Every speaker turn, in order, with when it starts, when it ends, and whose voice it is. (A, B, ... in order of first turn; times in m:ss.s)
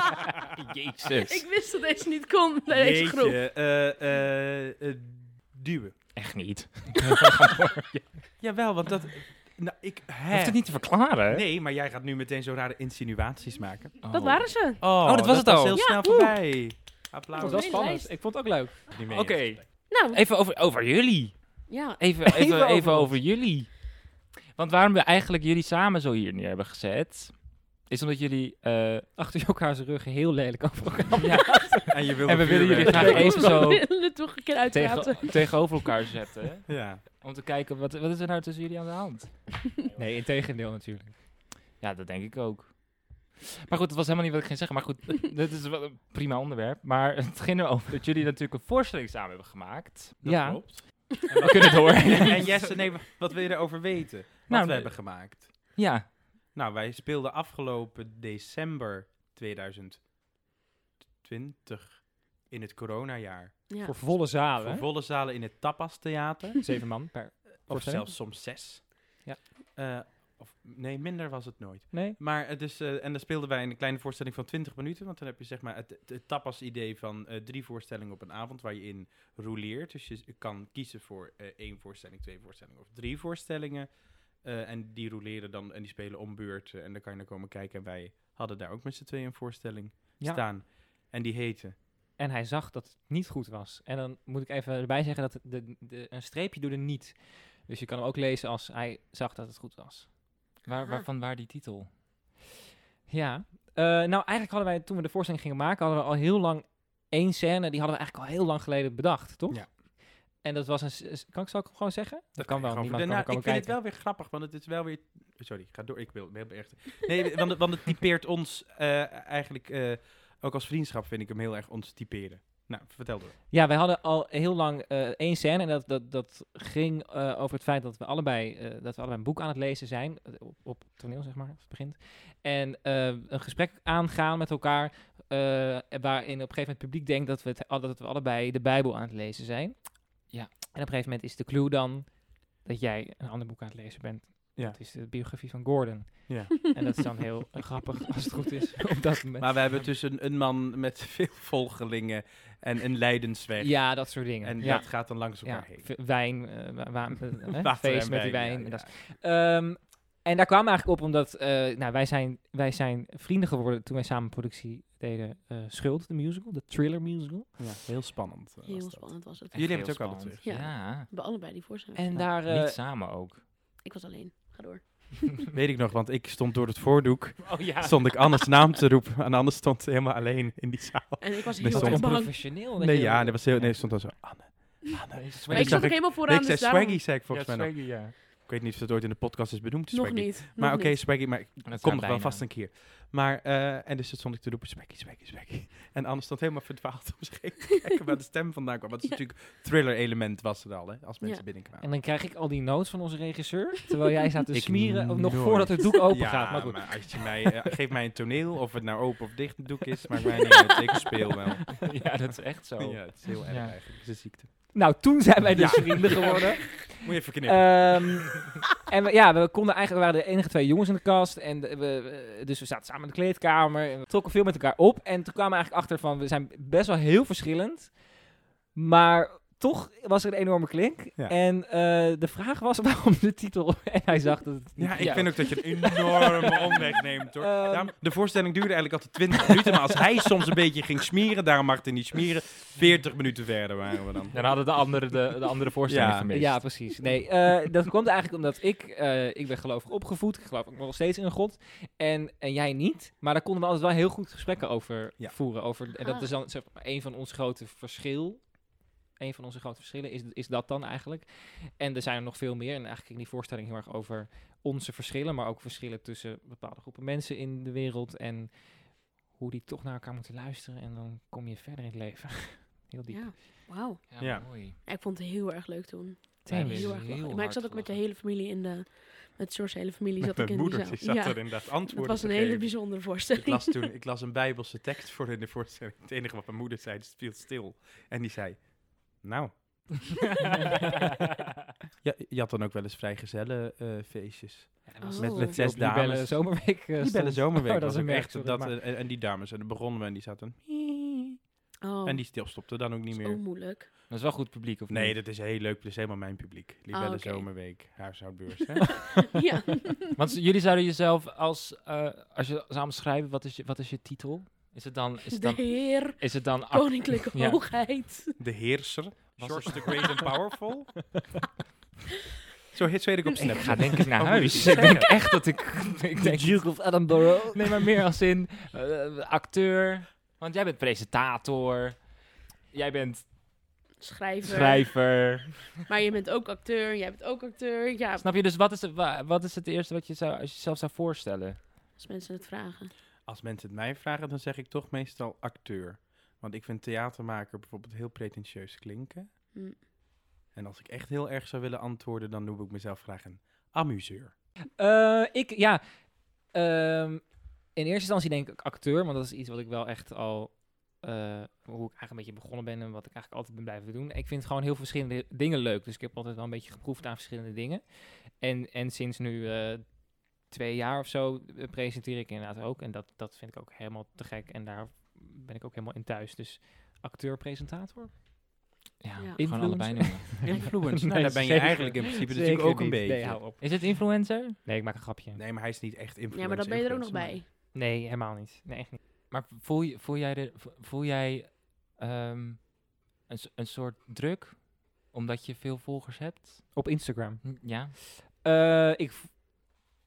0:00.5-0:01.5 A
0:01.3-0:03.4 B
0:02.7-0:06.2 C
0:06.2-0:08.1 A
0:08.4-0:14.0 C
0:10.3-0:11.4 A
0:14.0-0:15.8 A
0:14.1-0:14.8 B
0:14.8-0:17.9 C
0:15.7-0:16.3 B
0:17.4-0:18.1 B
0:17.4-0:19.0 D
0:18.9-0:19.7 C
0:19.1-0:29.1 A
0:19.9-0:20.2 B
0:21.7-0:22.0 B
0:22.2-0:23.2 D
0:29.2-0:33.8 D
0:31.2-0:34.1 A
0:31.9-0:33.5 C
0:32.9-0:35.9 B
0:34.7-0:39.7 A
0:36.7-0:37.0 C
0:40.0-0:41.2 D
0:41.8-0:50.2 A
0:50.2-0:55.8 C
0:50.2-0:51.0 D
0:51.4-0:52.7 A
0:52.0-0:52.4 D
0:54.5-0:56.1 A
0:56.5-1:00.1 C
1:01.2-1:06.7 C
1:03.7-1:04.0 B
1:03.8-1:04.9 D
1:06.6-1:08.3 D
1:07.7-1:31.8 C
1:11.9-1:12.2 D
1:32.2-1:40.1 D
1:40.6-1:41.9 A
1:40.8-1:41.1 B
1:43.1-1:53.7 D
1:52.4-2:03.4 C
2:03.5-2:29.5 D
2:26.3-2:26.7 C
2:29.4-2:35.9 C
2:33.6-2:47.7 D
2:37.5-2:38.9 C
2:47.6-2:50.6 C
2:48.6-2:49.8 B
2:49.5-2:51.1 A
2:50.4-2:52.3 B
2:52.0-2:52.8 D
2:52.1-2:53.4 A
2:53.8-2:55.4 B
2:55.5-3:21.9 C
2:57.4-2:58.2 A
3:01.2-3:02.5 B
3:01.6-3:03.9 D
3:05.1-3:05.9 A
3:05.5-3:07.0 B
3:07.3-3:08.1 A
3:09.9-3:11.0 B
3:11.7-3:12.4 A
3:21.8-3:27.2 D
3:24.5-3:34.9 C
3:31.8-3:33.8 A
3:34.7-3:58.0 D
3:35.5-3:38.1 C
3:54.8-4:04.4 C
3:55.0-3:55.3 A
4:04.3-4:06.7 A
4:05.9-4:06.3 C
4:06.3-4:33.4 D
4:15.9-4:16.3 B
4:33.1-4:43.8 B
4:34.1-4:34.8 A
4:34.2-4:34.5 C
4:36.5-4:38.0 A
4:36.5-4:37.0 D
4:40.2-4:50.2 C
4:52.0-5:01.5 C
4:54.9-4:58.7 D
4:55.0-4:55.6 B
5:01.8-5:03.9 B
5:02.0-5:03.4 C
5:04.1-5:05.2 A
5:04.9-5:09.4 C
5:06.9-5:07.7 B
5:09.0-5:10.1 B
5:10.1-5:17.6 A
5:15.3-5:18.4 B
5:18.4-5:21.3 C
5:19.4-5:20.2 A
5:22.7-5:25.1 C
5:23.5-5:32.1 A
5:24.6-5:25.0 D
5:26.2-5:27.9 D
5:32.7-5:33.3 A
5:34.0-5:35.4 B
5:34.4-5:35.8 A
5:35.9-5:38.3 B
5:38.2-5:41.6 A
5:42.0-5:42.9 B
5:43.3-5:49.3 C
5:49.5-5:49.8 B
5:50.5-5:54.3 C
5:54.8-6:18.2 D
6:19.0-6:20.5 A
6:19.4-6:25.4 D
6:20.4-6:23.4 C
6:23.6-6:24.6 A
6:25.4-6:27.4 C
6:26.3-6:27.5 B
6:27.7-6:29.0 D
6:29.3-6:36.9 A
6:36.7-6:39.8 D
6:37.4-6:38.0 A